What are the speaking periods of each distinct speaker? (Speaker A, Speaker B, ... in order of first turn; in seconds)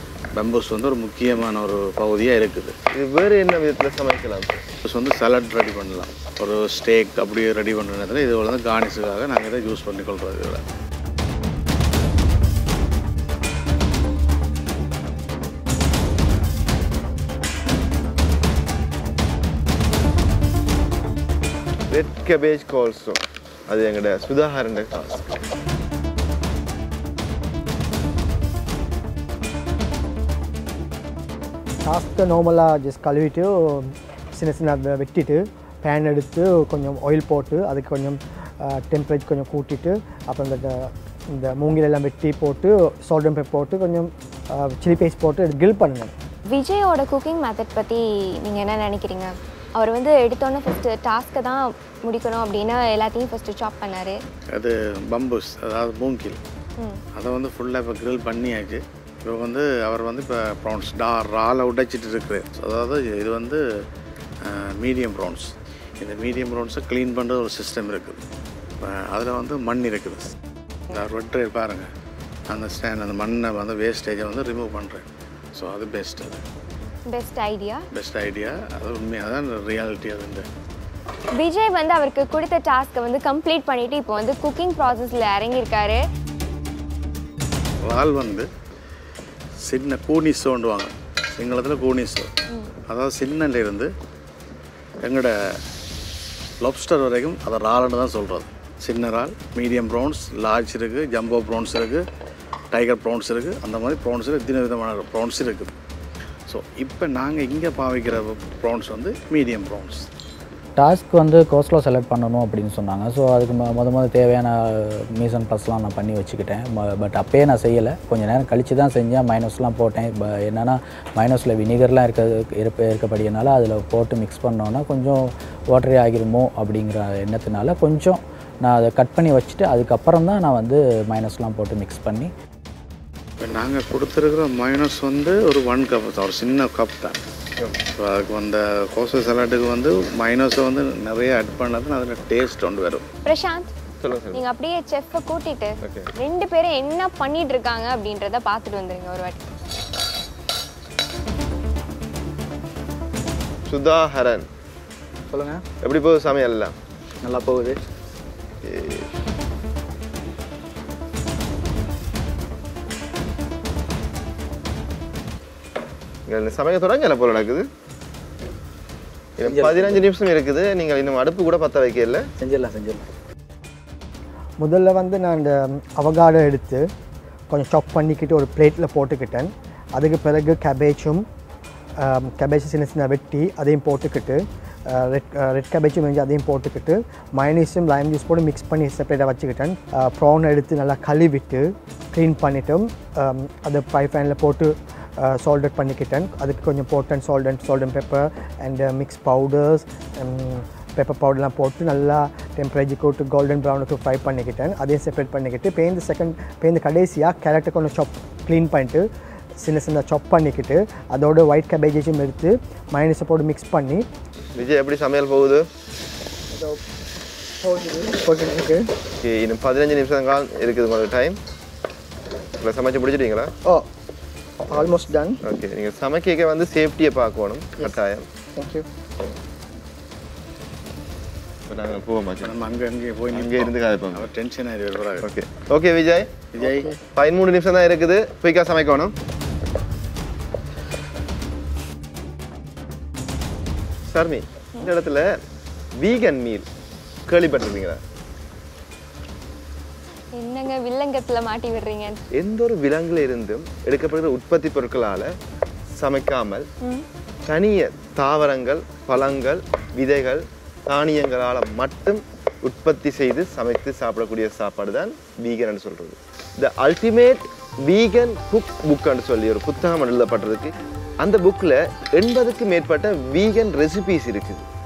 Speaker A: 0.3-2.8, 4.9-10.6, 54.5-56.4, 57.2-63.6, 64.4-68.2, 68.8-70.3, 70.9-71.9, 72.5-76.4, 77.9-80.5, 87.8-88.5, 89.6-92.3, 92.9-93.9, 95.0-95.3, 96.6-102.0, 102.7-105.7, 106.5-110.0, 133.4-137.2, 138.0-143.0, 232.4-235.2, 236.5-236.9
Speaker B: 2.9-4.5, 21.9-25.4, 144.0-144.4, 145.8-146.1, 153.7-154.5, 155.8-156.7, 158.6-159.1, 166.3-167.7, 169.4-172.3, 214.6-215.7, 219.2-221.4, 222.6-223.5, 225.4-228.3, 231.7-232.6, 233.3-234.3, 235.2-239.1, 244.1-245.3, 246.0-246.7, 247.3-248.0, 252.3-255.3, 256.0-256.7, 257.5-274.7
Speaker C: 31.8-46.1, 174.6-176.8, 177.5-181.2, 182.0-209.1, 209.6-214.1, 216.5-216.8, 217.6-218.9, 224.7-225.4, 228.6-228.9
Speaker D: 46.5-54.2, 77.1-77.9, 81.4-86.0, 143.2-143.7, 144.3-149.4, 250.4-252.2
Speaker E: 110.8-132.3
Speaker F: 155.3-155.6, 157.2-157.8, 169.4-170.0, 172.4-173.1